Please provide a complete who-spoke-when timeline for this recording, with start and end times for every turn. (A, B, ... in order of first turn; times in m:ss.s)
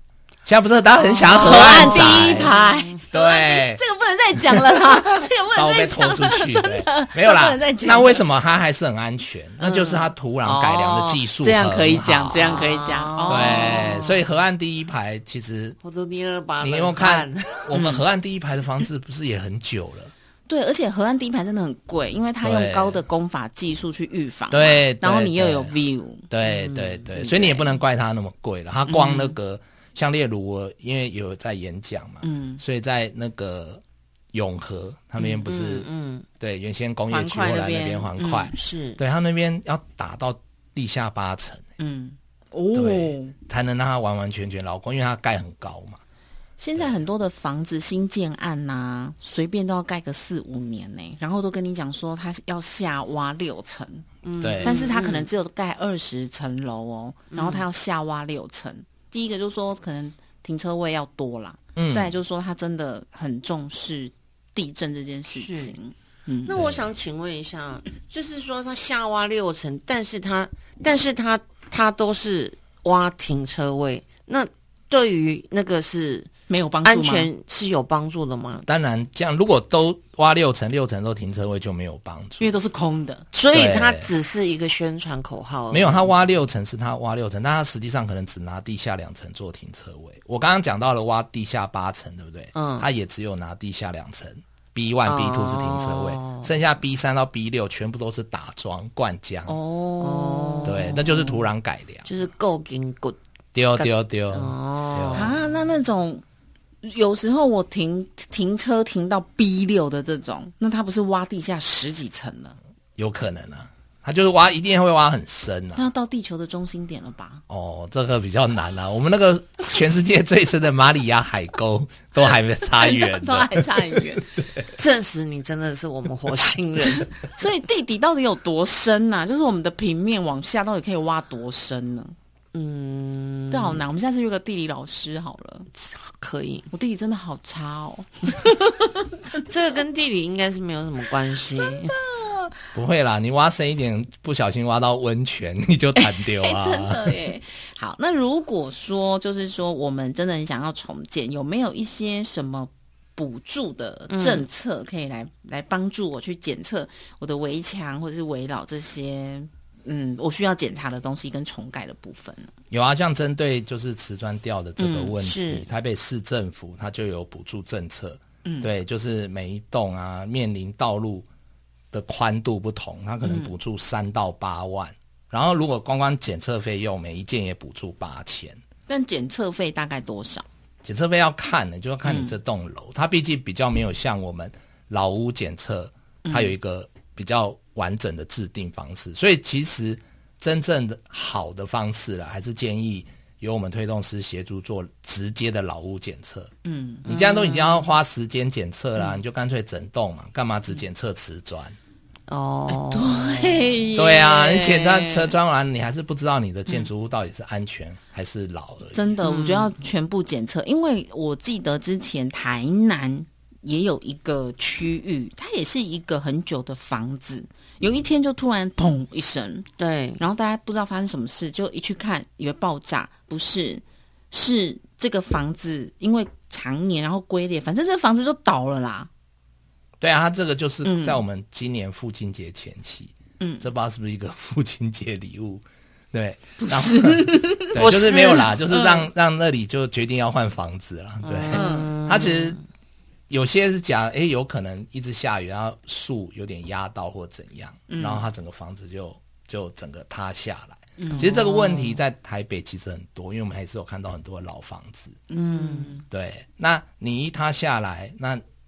0:00.4-0:02.5 A
0:01.1-0:03.0 B
0:01.3-0:08.2 C
0:03.1-0:03.8 A
0:04.4-0:12.6 A
0:09.6-0:14.1 C
0:12.4-0:14.1 B
0:13.3-0:15.8 A
0:15.8-0:17.8 B
0:16.6-0:20.1 A
0:17.7-0:18.0 C
0:20.5-0:26.3 C
0:22.4-0:23.0 A
0:24.5-0:25.7 A
0:26.3-0:33.8 A
0:26.6-0:27.0 B
0:27.1-0:27.7 C
0:28.9-0:29.4 C
0:32.2-0:32.6 C
0:34.3-0:35.9 A
0:35.4-0:36.2 B
0:36.4-0:41.6 A
0:37.1-0:38.5 C
0:38.5-0:39.0 B
0:41.8-0:43.3 C
0:42.7-0:46.0 A
0:46.6-0:54.1 C
0:54.2-0:55.3 B
0:54.4-0:54.8 A
0:54.6-1:06.6 C
0:57.3-0:57.6 B
1:01.8-1:02.1 A
1:05.3-1:05.7 B
1:06.4-1:16.3 B
1:06.5-1:06.9 A
1:16.5-1:17.3 C
1:16.8-1:18.6 B
1:18.7-1:22.5 A
1:22.4-1:23.2 C
1:23.3-1:26.2 B
1:23.5-1:24.1 A
1:25.7-1:39.6 A
1:32.5-1:32.8 B
1:35.0-1:36.5 B
1:39.5-1:41.1 C
1:40.0-1:41.4 B
1:40.6-1:42.1 A
1:42.0-1:43.2 B
1:43.5-1:45.3 A
1:43.7-1:45.3 B
1:45.1-1:46.2 C
1:46.8-1:52.6 C
1:53.0-1:55.9 A
1:55.8-1:57.4 C
1:57.5-2:04.6 A
2:02.8-2:04.2 C
2:04.7-2:07.1 B
2:06.8-2:12.1 C
2:12.5-2:13.8 B
2:13.5-2:15.7 C
2:15.8-2:16.7 B
2:16.7-2:19.1 C
2:19.4-2:22.0 B
2:21.6-2:22.5 C
2:22.7-2:27.2 A
2:26.0-2:42.5 C
2:34.1-2:34.4 B
2:42.7-2:51.2 A
2:44.8-2:45.1 C
2:45.2-2:45.6 B
2:51.9-2:58.6 A
2:53.2-2:53.5 C
2:58.9-3:00.4 C
3:00.8-3:16.5 A
3:02.0-3:02.3 C
3:06.2-3:06.5 C
3:16.6-3:17.8 C
3:17.0-3:21.8 A
3:17.1-3:17.4 B
3:22.3-3:23.8 B
3:22.7-3:25.3 C
3:24.0-3:29.2 A
3:28.9-3:39.7 C
3:29.2-3:29.7 B
3:39.8-3:40.2 B
3:40.2-3:49.1 C
3:50.0-4:02.6 A
3:50.8-3:51.2 C
3:53.4-3:53.6 C
3:56.6-3:57.7 C
3:57.7-3:58.5 B
3:58.7-3:59.0 C
4:01.2-4:02.6 B
4:01.5-4:01.9 C
4:03.3-4:15.2 A
4:07.9-4:08.2 C
4:11.0-4:11.4 C
4:11.1-4:12.0 B
4:15.3-4:16.0 C
4:15.4-4:15.9 B
4:16.1-4:18.4 A